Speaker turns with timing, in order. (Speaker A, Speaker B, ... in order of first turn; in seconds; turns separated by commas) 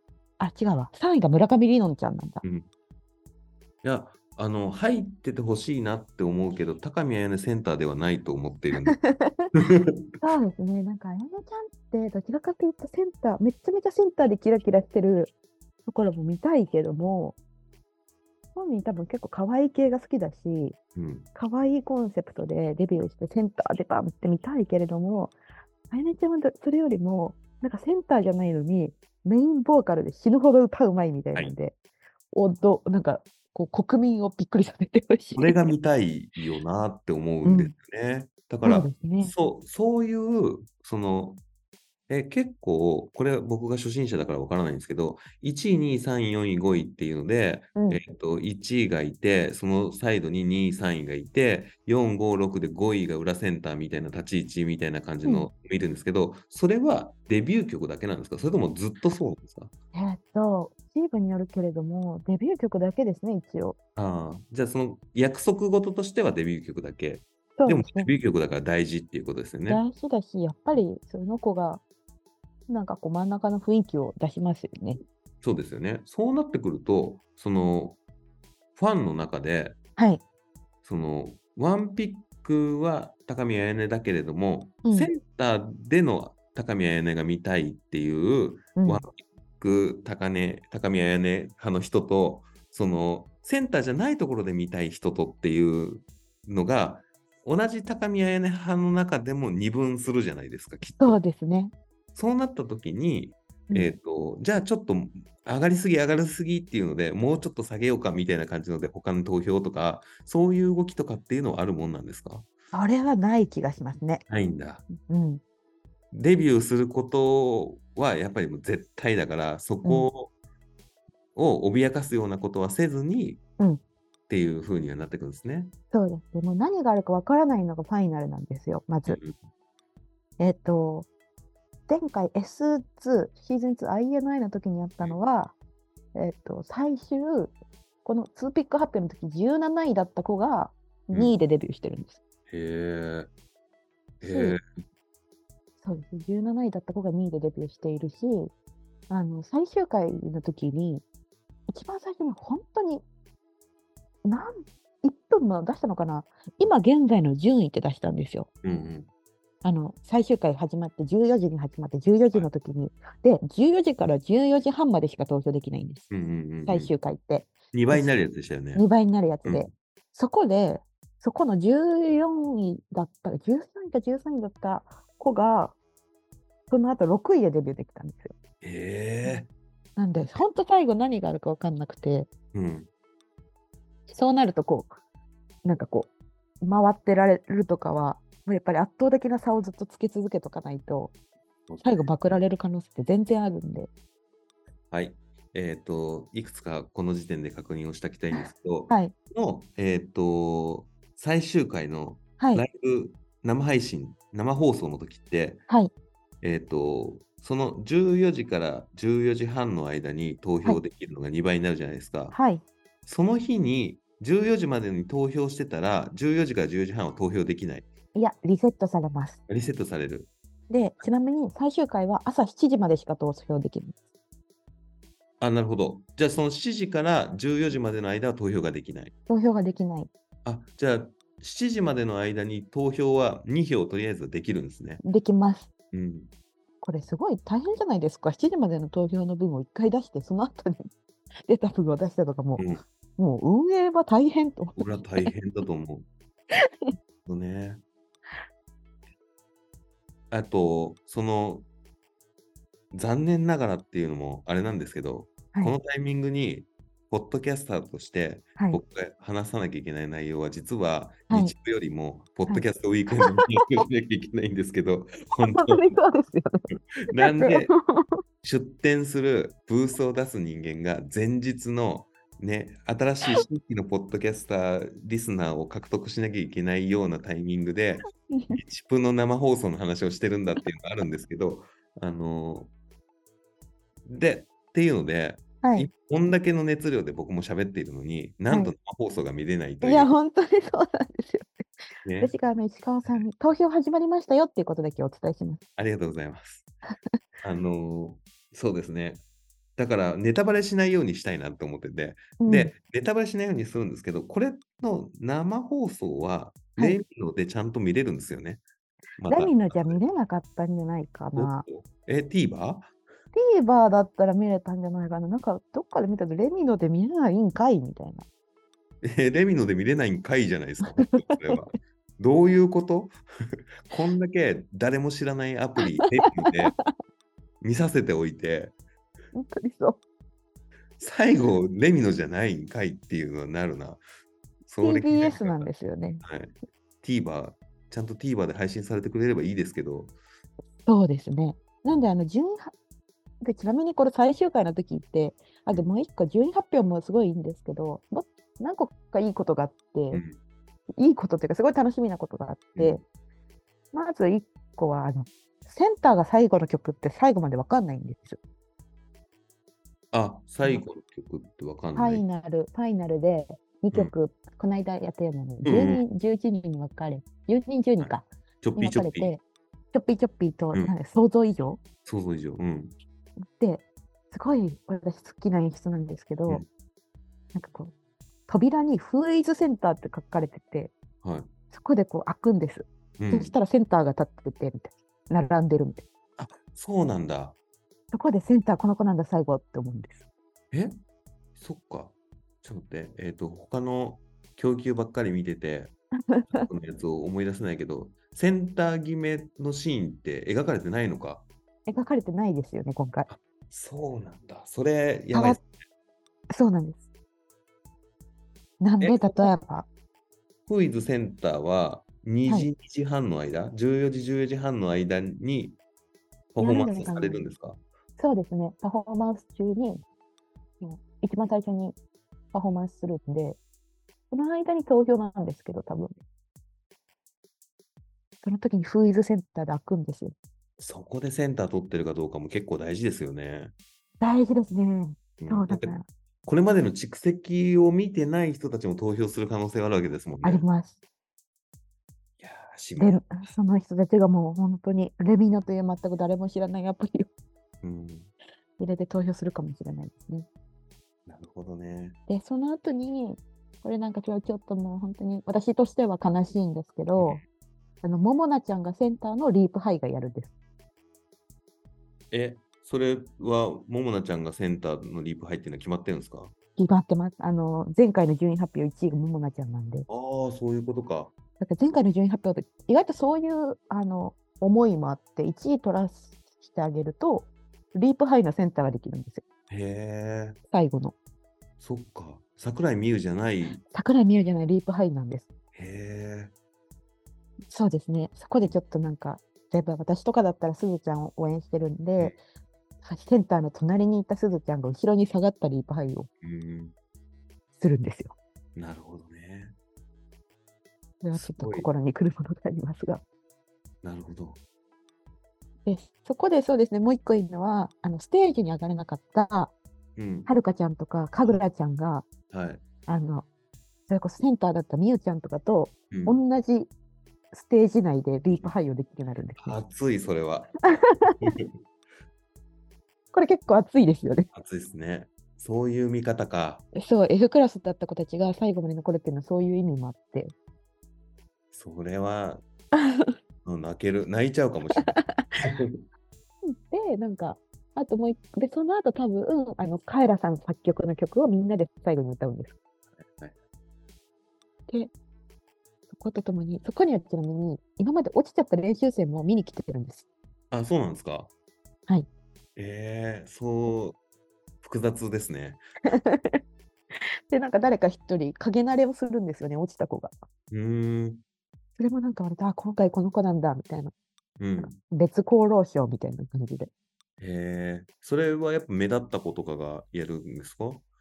Speaker A: 0.4-2.4, Speaker B: 3.8-9.0, Speaker A: 8.9-9.5, Speaker B: 9.5-10.0, Speaker A: 10.2-15.3, Speaker A: 15.9-17.4, Speaker A: 18.6-20.8, Speaker B: 21.0-21.3, Speaker A: 21.4-25.4, Speaker A: 25.9-31.8, Speaker A: 32.3-35.7, Speaker B: 35.4-41.4, Speaker A: 37.5-37.7, Speaker A: 38.6-39.3, Speaker B: 42.1-59.7, Speaker A: 47.8-48.0, Speaker A: 59.9-63.8, Speaker B: 64.0-69.8, Speaker A: 67.6-68.1, Speaker A: 69.7-71.8, Speaker A: 72.7-75.0, Speaker B: 75.4-78.0, Speaker B: 78.8-79.8, Speaker A: 80.0-80.2, Speaker B: 80.8-101.2, Speaker A: 84.8-85.1, Speaker A: 88.8-89.0, Speaker A: 100.9-101.7, Speaker B: 102.2-112.5, Speaker A: 103.7-103.9, Speaker A: 112.7-114.2, Speaker B: 114.3-114.9, Speaker A: 114.9-115.4, Speaker B: 116.1-120.3, Speaker A: 119.8-120.1, Speaker B: 121.3-123.4, Speaker B: 124.3-125.7, Speaker A: 125.9-129.2, Speaker B: 129.1-129.4, Speaker A: 130.4-131.1, Speaker A: 131.9-135.6, Speaker A: 136.1-142.2, Speaker B: 142.5-143.3, Speaker B: 144.2-144.6, Speaker A: 144.3-144.6, Speaker A: 145.8-148.5, Speaker A: 149.1-151.1, Speaker A: 151.7-153.0, Speaker A: 154.2-158.5, Speaker B: 158.6-159.1, Speaker A: 159.6-166.1, Speaker B: 166.1-166.9, Speaker A: 166.7-168.2, Speaker B: 167.7-168.8, Speaker A: 168.7-175.8, Speaker A: 176.7-178.3, Speaker B: 178.6-179.5, Speaker A: 180.0-182.3, Speaker B: 182.5-182.9, Speaker A: 184.1-184.9, Speaker A: 185.6-191.1, Speaker B: 191.7-192.1, Speaker A: 191.8-193.9, Speaker B: 194.9-205.6, Speaker A: 198.3-199.1, Speaker B: 206.4-212.4, Speaker A: 212.3-212.6, Speaker B: 213.1-217.9, Speaker A: 218.2-219.4, Speaker B: 219.5-220.3, Speaker A: 220.7-224.0, Speaker B: 225.4-229.1, Speaker A: 229.3-230.1, Speaker B: 230.4-235.0, Speaker A: 235.0-235.7, Speaker B: 235.9-236.3, Speaker A: 236.8-240.9, Speaker A: 241.5-245.3, Speaker B: 242.6-242.8, Speaker B: 244.8-246.1, Speaker A: 246.7-246.9, Speaker B: 247.3-247.8, Speaker B: 250.3-251.7, Speaker B: 252.9-265.9, Speaker A: 258.6-258.8, Speaker A: 261.3-261.5, Speaker A: 263.2-263.5, Speaker A: 265.4-268.2, Speaker B: 267.0-267.7, Speaker B: 268.4-282.7, Speaker A: 278.3-278.6, Speaker B: 284.1-290.1, Speaker A: 285.6-285.9, Speaker A: 289.8-291.7, Speaker B: 292.1-292.3, Speaker A: 292.2-295.6, Speaker B: 295.8-296.7, Speaker B: 297.4-299.2, Speaker B: 299.8-308.6, Speaker A: 302.4-302.7, Speaker B: 309.2-310.0, Speaker A: 309.3-311.7, Speaker B: 311.4-312.9, Speaker A: 313.3-318.2, Speaker B: 319.0-326.8, Speaker A: 321.1-321.6, Speaker B: 327.6-328.8, Speaker A: 329.3-330.0, Speaker B: 331.0-334.0, Speaker B: 334.7-335.7, Speaker A: 334.8-336.2, Speaker B: 336.2-340.1, Speaker A: 340.9-342.7, Speaker A: 343.4-350.2, Speaker B: 350.1-350.4, Speaker A: 351.0-353.0, Speaker B: 352.8-353.0, Speaker A: 353.9-358.4, Speaker B: 360.1-362.2, Speaker A: 362.0-369.4, Speaker B: 365.6-366.0, Speaker B: 368.0-369.3, Speaker A: 369.9-371.8, Speaker B: 372.1-372.9, Speaker A: 373.6-376.6, Speaker A: 377.5-377.9, Speaker A: 378.5-380.9, Speaker B: 381.2-381.5, Speaker A: 381.7-386.0, Speaker B: 383.2-383.5, Speaker B: 386.4-387.6, Speaker A: 388.1-390.3, Speaker B: 390.7-391.0, Speaker B: 391.6-392.1, Speaker B: 392.6-395.9, Speaker A: 396.3-396.7, Speaker B: 396.5-401.4, Speaker A: 401.9-403.3, Speaker B: 403.3-405.6, Speaker A: 405.3-405.6, Speaker A: 406.5-407.0, Speaker A: 408.8-409.9, Speaker B: 409.0-409.5, Speaker B: 410.7-415.8, Speaker B: 416.6-417.8, Speaker A: 416.6-417.4, Speaker A: 418.2-420.0, Speaker A: 420.8-422.0, Speaker A: 422.5-423.6, Speaker A: 424.3-426.2, Speaker A: 428.4-430.3, Speaker B: 430.8-433.7, Speaker A: 434.2-436.1, Speaker B: 435.4-440.7, Speaker A: 440.4-441.0, Speaker B: 442.4-443.3, Speaker A: 443.0-447.3, Speaker B: 447.8-448.3, Speaker A: 448.8-450.5, Speaker B: 451.3-452.2, Speaker A: 452.3-457.4, Speaker B: 457.2-457.4, Speaker A: 458.0-460.5, Speaker B: 462.3-466.5, Speaker A: 466.8-470.1, Speaker B: 470.1-471.3, Speaker A: 471.6-479.4, Speaker B: 479.7-480.6, Speaker A: 480.7-481.1, Speaker B: 481.8-483.8, Speaker A: 483.8-485.5, Speaker B: 485.8-486.5, Speaker A: 487.7-492.4, Speaker A: 493.0-496.3, Speaker B: 496.4-496.9, Speaker A: 497.8-498.4, Speaker B: 498.8-499.7, Speaker A: 501.2-503.2, Speaker B: 501.4-501.9, Speaker B: 504.0-504.6, Speaker A: 505.9-509.7, Speaker B: 510.2-510.5, Speaker A: 510.5-512.3, Speaker B: 512.5-512.8, Speaker A: 513.1-513.5, Speaker A: 514.1-516.9, Speaker B: 516.1-516.4, Speaker A: 517.5-519.8, Speaker B: 519.6-521.7, Speaker A: 521.0-521.5, Speaker A: 523.3-524.5, Speaker B: 524.5-526.8, Speaker A: 526.9-530.5, Speaker B: 531.7-532.6, Speaker A: 532.9-533.4, Speaker B: 533.6-536.0, Speaker A: 535.0-535.6, Speaker A: 536.6-542.8, Speaker B: 543.2-543.5, Speaker A: 546.1-550.2, Speaker B: 550.7-551.5, Speaker B: 552.8-554.2, Speaker B: 554.8-555.8, Speaker A: 556.1-556.6, Speaker A: 557.5-560.4, Speaker B: 560.7-561.4, Speaker A: 562.0-564.1, Speaker B: 564.6-565.0, Speaker A: 564.8-566.9, Speaker B: 567.4-571.1